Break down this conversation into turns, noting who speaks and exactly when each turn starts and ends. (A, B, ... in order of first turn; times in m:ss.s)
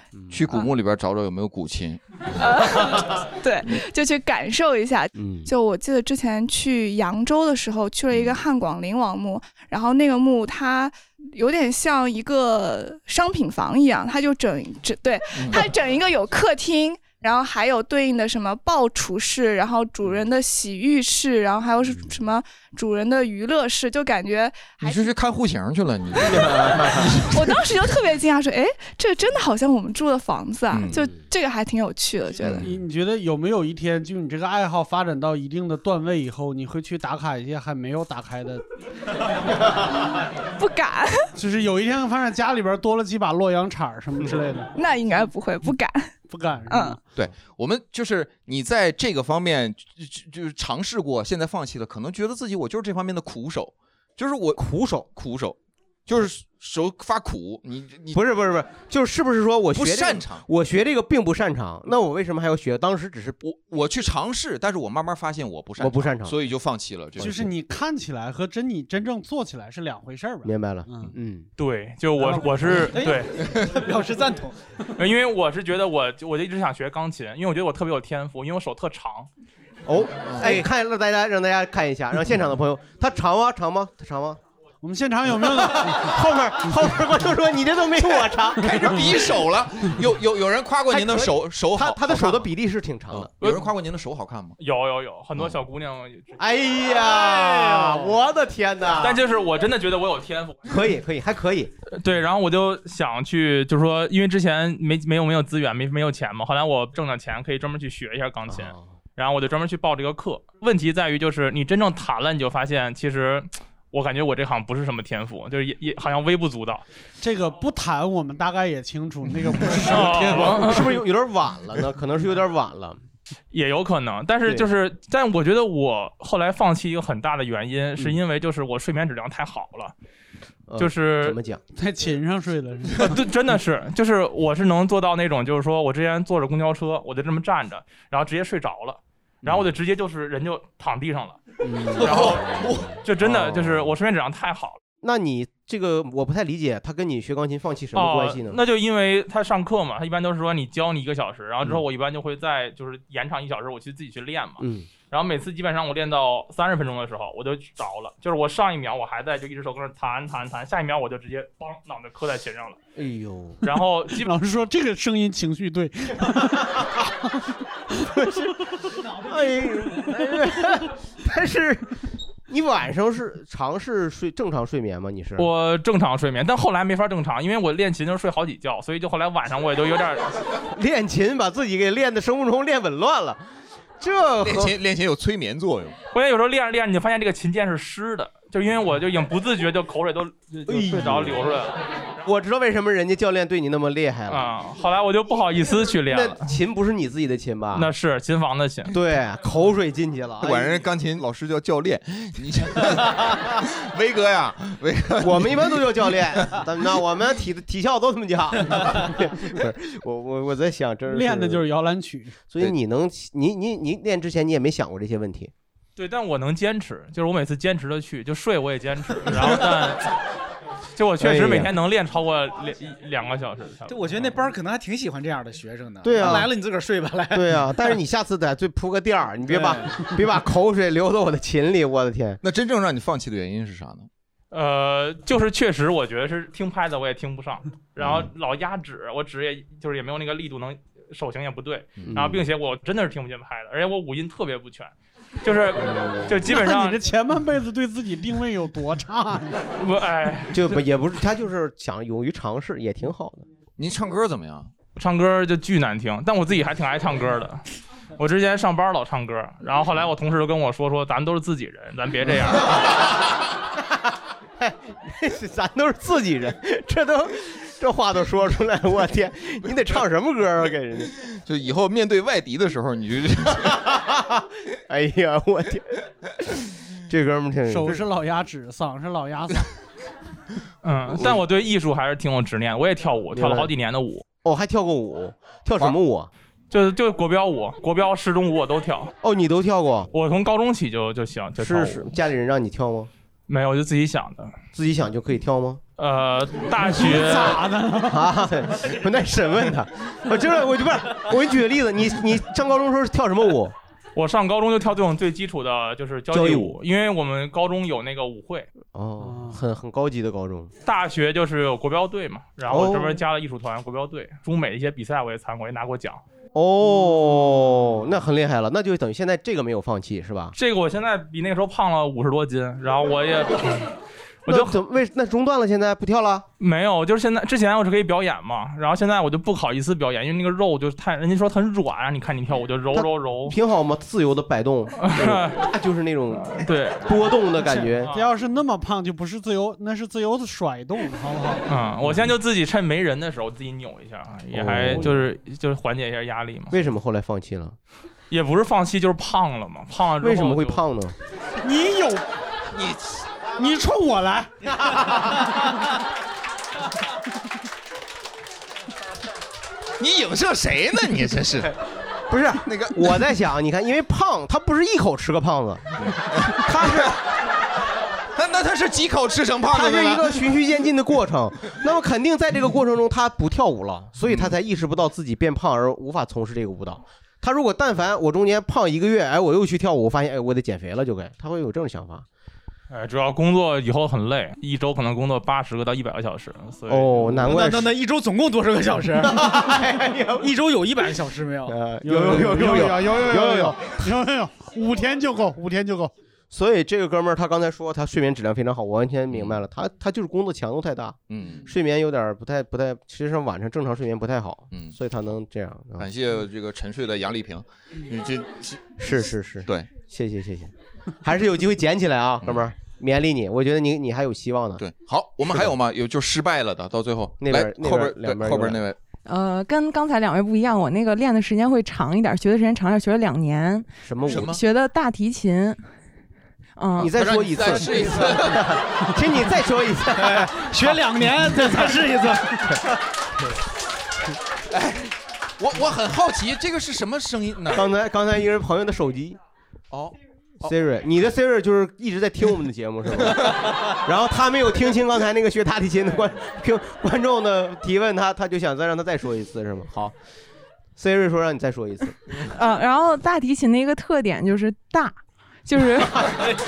0:00.1-0:00.4 A
0:00.3-0:02.9 B
0:02.4-0:25.1 C
0:05.1-0:05.5 A
0:15.3-0:15.7 B
0:24.8-0:27.6 B
0:26.2-0:27.2 A
0:27.3-0:32.7 C
0:30.7-0:31.0 B
0:30.9-0:31.2 A
0:32.4-0:32.7 B
0:32.6-0:38.6 D
0:40.6-0:41.2 C
0:41.3-0:44.7 D
0:44.8-0:46.1 C
0:46.3-0:47.0 D
0:46.7-0:47.0 C
0:47.1-0:58.2 B
0:54.6-0:55.1 A
0:58.1-1:03.4 A
0:59.7-1:00.4 B
1:03.4-1:07.5 B
1:05.8-1:06.4 A
1:07.2-1:11.1 D
1:10.4-1:11.5 A
1:11.6-1:13.4 E
1:12.2-1:12.6 D
1:12.9-1:14.6 F
1:15.0-1:19.3 E
1:19.8-1:24.4 A
1:20.2-1:20.6 B
1:24.8-1:26.1 D
1:25.4-1:28.9 A
1:28.6-1:32.5 B
1:28.7-1:29.0 D
1:30.9-1:33.3 A
1:33.1-1:34.6 B
1:33.4-1:33.7 E
1:34.6-1:36.4 E
1:36.4-1:39.2 A
1:39.0-1:40.8 E
1:40.6-1:41.7 A
1:41.9-1:56.8 E
1:48.5-1:48.9 A
1:57.2-2:00.8 D
1:59.8-2:00.9 E
2:00.2-2:03.0 A
2:03.5-2:09.9 E
2:04.4-2:04.7 A
2:10.7-2:11.6 A
2:10.8-2:11.4 E
2:11.7-2:13.2 D
2:13.0-2:21.4 E
2:21.6-2:23.9 A
2:22.0-2:22.4 E
2:22.0-2:22.9 B
2:23.0-2:24.8 E
2:25.0-2:28.6 A
2:27.9-2:42.8 E
2:34.6-2:34.9 A
2:43.0-2:43.6 A
2:43.6-2:44.3 E
2:44.2-2:47.2 D
2:48.0-2:48.5 A
2:49.1-2:55.5 A
2:55.4-3:00.4 E
3:00.7-3:03.4 A
3:04.0-3:04.8 A
3:04.4-3:06.0 B
3:06.1-3:11.8 E
3:10.7-3:11.4 A
3:12.2-3:14.5 A
3:14.3-3:16.5 E
3:16.1-3:17.9 A
3:17.7-3:18.9 E
3:18.9-3:20.8 A
3:20.4-3:25.8 B
3:25.2-3:31.6 A
3:31.1-3:32.4 D
3:32.5-3:35.5 A
3:36.0-3:40.1 E
3:41.0-3:44.3 E
3:41.2-3:41.7 A
3:43.9-3:47.5 F
3:46.0-3:46.5 A
3:47.3-3:52.4 A
3:49.5-3:50.0 F
3:52.4-3:54.1 B
3:54.5-4:04.9 E
4:02.0-4:02.3 B
4:02.0-4:02.4 A
4:05.4-4:07.0 E
4:05.8-4:06.3 A
4:06.4-4:09.6 D
4:09.8-4:10.8 E
4:10.5-4:13.4 A
4:13.8-4:14.7 B
4:15.0-4:17.6 E
4:18.2-4:22.9 E
4:24.6-4:31.1 A
4:31.3-4:33.9 B
4:33.6-4:36.0 A
4:37.1-4:38.0 A
4:37.7-4:39.7 D
4:40.8-4:44.2 E
4:43.3-4:43.7 A
4:44.4-4:46.3 A
4:46.7-4:49.1 E
4:49.2-4:50.1 A
4:50.1-4:52.0 E
4:51.6-4:53.1 A
4:53.5-4:54.5 E
4:54.7-4:55.8 A
4:56.0-4:57.7 E
4:56.8-4:58.3 D
4:58.0-5:03.7 A
5:04.1-5:08.7 E
5:06.3-5:06.8 A
5:08.9-5:10.7 A
5:09.2-5:09.6 D
5:10.8-5:16.2 E
5:12.7-5:13.2 A
5:16.5-5:20.5 A
5:20.5-5:23.9 E
5:24.4-5:24.8 E
5:24.5-5:26.5 A
5:26.6-5:33.5 E
5:32.9-5:38.1 A
5:35.0-5:35.7 E
5:36.5-5:37.2 E
5:37.9-5:38.3 E
5:38.0-5:41.6 D
5:41.6-5:46.8 E
5:44.5-5:45.2 A
5:46.7-5:47.8 A
5:48.3-5:50.8 E
5:50.2-5:51.1 A
5:51.6-5:52.2 D
5:52.7-5:53.2 B
5:53.6-5:54.5 D
6:00.0-6:01.7 B
6:02.3-6:07.2 A
6:02.6-6:03.1 B
6:06.0-6:07.1 B
6:08.3-6:10.4 B
6:09.7-6:22.2 A
6:14.2-6:14.5 B
6:22.9-6:27.2 E
6:26.9-6:27.9 A
6:27.3-6:29.8 F
6:29.2-6:30.5 A
6:30.4-6:31.7 F
6:31.7-6:34.0 A
6:32.0-6:36.1 D
6:36.5-6:46.1 A
6:39.3-6:39.6 B
6:41.3-6:41.7 B
6:46.0-6:48.9 B
6:49.0-6:54.8 A
6:54.8-6:59.0 B
6:55.4-6:55.7 A
6:57.4-6:58.8 A
6:59.2-7:05.8 G
7:04.0-7:04.6 A
7:04.3-7:04.6 B
7:06.8-7:07.1 G
7:07.0-7:11.0 A
7:07.0-7:08.8 B
7:10.2-7:12.7 F
7:14.7-7:17.8 B
7:17.7-7:19.4 A
7:20.6-7:30.2 A
7:31.0-7:32.2 A
7:32.5-7:36.3 G